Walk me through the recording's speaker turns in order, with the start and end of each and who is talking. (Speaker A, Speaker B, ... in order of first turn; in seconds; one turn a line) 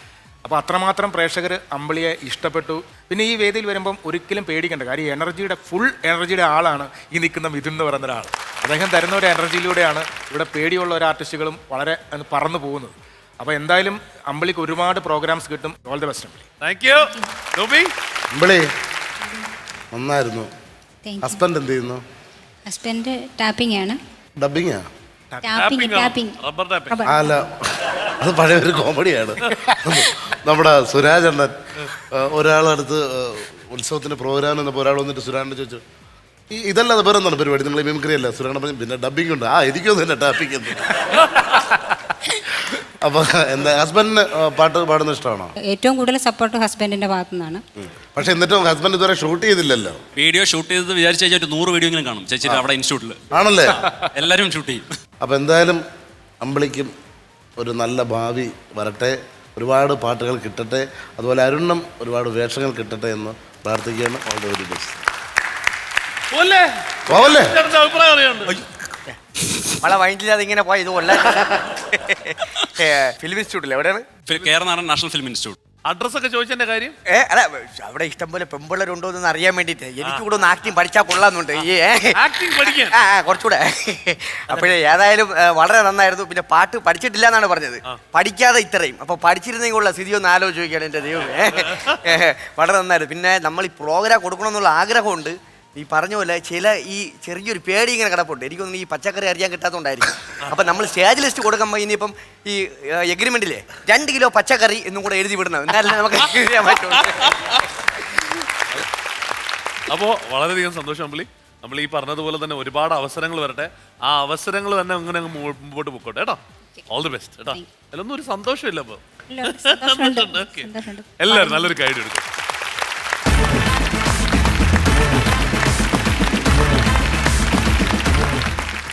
Speaker A: 0.4-16.4
Speaker B: 16.6-17.9
Speaker C: 18.3-18.6
Speaker C: 19.9-20.5
Speaker D: 21.0-21.4
Speaker C: 21.2-22.0
Speaker D: 22.7-24.0
Speaker C: 24.4-24.9
Speaker D: 25.4-27.2
Speaker B: 25.6-27.0
Speaker C: 27.0-35.8
Speaker C: 36.5-41.9
Speaker C: 42.7-45.5
Speaker D: 45.7-47.6
Speaker C: 47.9-50.0
Speaker E: 50.1-53.1
Speaker C: 53.3-53.9
Speaker E: 53.7-54.9
Speaker C: 55.2-55.8
Speaker C: 56.4-56.9
Speaker C: 57.6-65.0
Speaker B: 66.3-68.6
Speaker C: 67.1-67.6
Speaker F: 69.8-74.1
Speaker E: 74.3-75.6
Speaker B: 75.8-77.0
Speaker F: 77.1-82.1
Speaker B: 80.0-80.8
Speaker B: 81.5-83.0
Speaker F: 82.9-107.3
Speaker B: 84.5-84.8
Speaker B: 91.2-92.1
Speaker B: 106.7-107.3
Speaker B: 109.9-120.7
Speaker D: 119.3-121.8
Speaker B: 121.2-122.2